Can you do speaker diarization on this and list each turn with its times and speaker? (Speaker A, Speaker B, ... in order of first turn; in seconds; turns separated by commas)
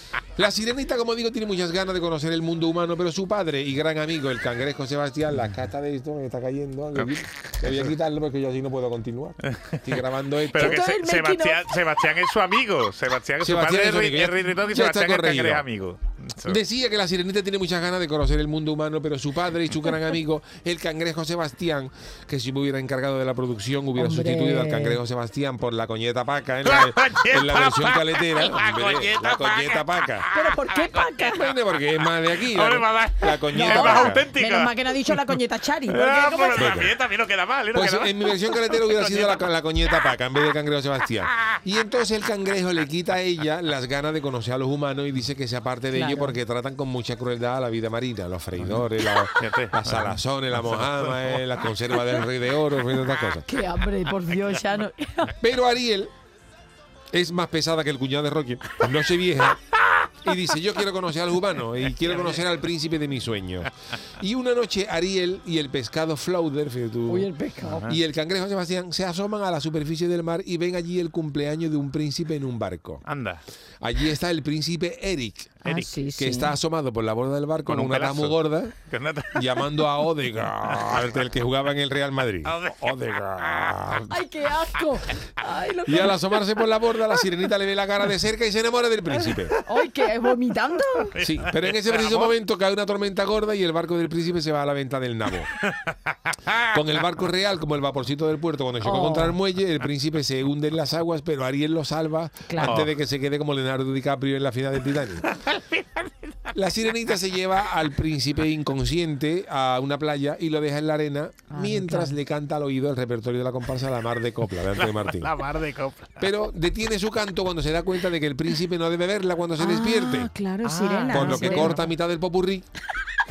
Speaker A: 0.4-10.8, Speaker B: 7.0-7.9, Speaker B: 9.4-9.9, Speaker B: 10.5-16.6, Speaker C: 10.5-11.6, Speaker A: 13.4-15.7, Speaker A: 16.4-30.3, Speaker C: 24.0-25.0, Speaker B: 26.6-39.5, Speaker C: 30.3-31.4, Speaker A: 31.1-34.3, Speaker C: 33.5-36.8, Speaker A: 36.5-36.9, Speaker A: 37.7-53.5, Speaker C: 45.9-46.4, Speaker B: 48.6-48.9, Speaker B: 49.4-51.7, Speaker C: 53.5-55.4, Speaker A: 55.4-56.1, Speaker A: 57.1-67.3, Speaker B: 62.0-62.4, Speaker C: 67.1-67.9, Speaker B: 67.6-68.0, Speaker A: 67.8-73.0, Speaker B: 73.0-73.4, Speaker A: 73.8-75.6, Speaker C: 75.6-76.5, Speaker B: 75.7-76.0, Speaker A: 76.2-78.8, Speaker B: 77.7-79.6, Speaker A: 79.3-84.2, Speaker B: 80.7-81.1, Speaker B: 82.5-83.0, Speaker C: 84.1-86.5, Speaker A: 85.8-89.5, Speaker C: 89.6-91.2, Speaker B: 91.1-92.3, Speaker A: 91.2-95.5, Speaker B: 95.6-96.7, Speaker A: 96.6-105.2, Speaker C: 98.8-99.4, Speaker C: 102.5-102.8, Speaker B: 102.6-102.9, Speaker B: 105.3-106.1, Speaker A: 106.5-115.4, Speaker C: 111.5-112.2, Speaker B: 114.8-116.2, Speaker A: 116.2-120.3, Speaker C: 119.6-121.8, Speaker B: 120.6-121.8, Speaker A: 121.1-122.7